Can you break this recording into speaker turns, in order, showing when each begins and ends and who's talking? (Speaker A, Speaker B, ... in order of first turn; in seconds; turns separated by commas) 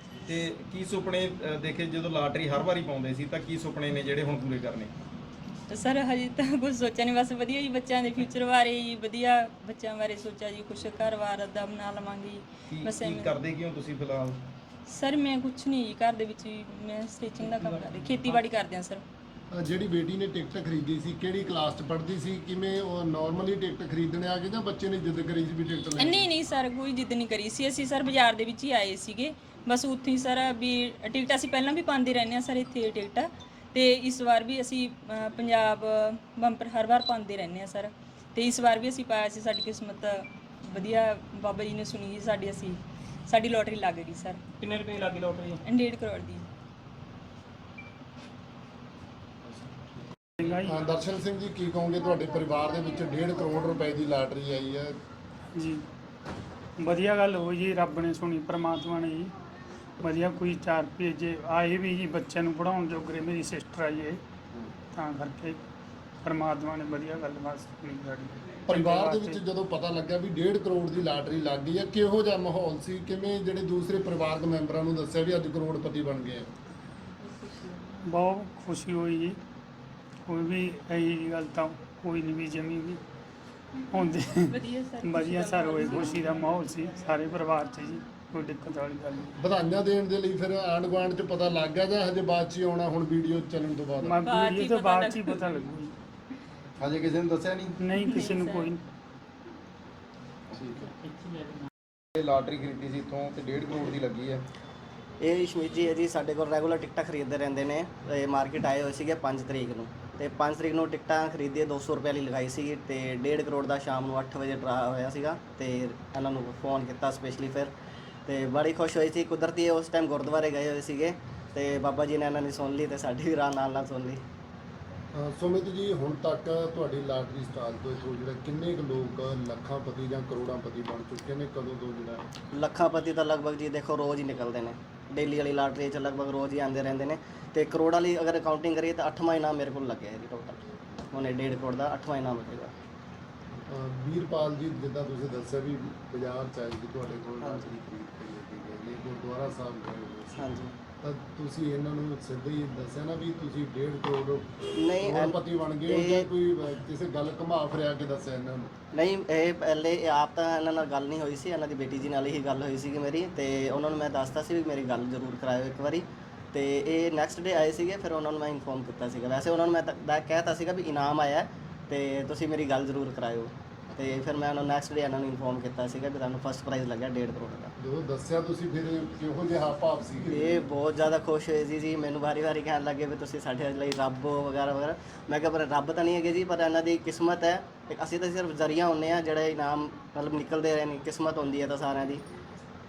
Speaker A: 0.2-4.9, Speaker B: 5.7-13.4, Speaker A: 12.7-14.4, Speaker B: 14.9-19.0, Speaker C: 19.5-26.3, Speaker B: 26.0-44.4, Speaker A: 44.6-45.6, Speaker B: 45.6-46.5, Speaker D: 50.4-50.8, Speaker C: 50.6-54.9, Speaker D: 55.5-55.8, Speaker D: 56.8-59.3, Speaker D: 60.0-64.2, Speaker D: 64.9-65.6, Speaker D: 66.2-69.4, Speaker C: 68.7-76.5, Speaker B: 77.3-77.8, Speaker D: 78.0-79.4, Speaker D: 80.3-83.0, Speaker D: 83.9-89.3, Speaker B: 84.5-86.9, Speaker C: 89.4-94.2, Speaker D: 94.0-95.9, Speaker B: 94.2-95.5, Speaker A: 96.8-97.8, Speaker D: 97.8-98.8, Speaker B: 98.0-98.7, Speaker A: 100.6-100.9, Speaker A: 102.2-104.4, Speaker E: 105.2-117.7, Speaker E: 118.2-124.2, Speaker C: 125.1-132.2, Speaker E: 132.5-142.7, Speaker C: 143.7-150.3, Speaker E: 150.3-150.7, Speaker C: 151.0-158.7, Speaker E: 154.7-156.3, Speaker E: 158.9-177.7, Speaker C: 177.8-180.6, Speaker E: 180.2-192.2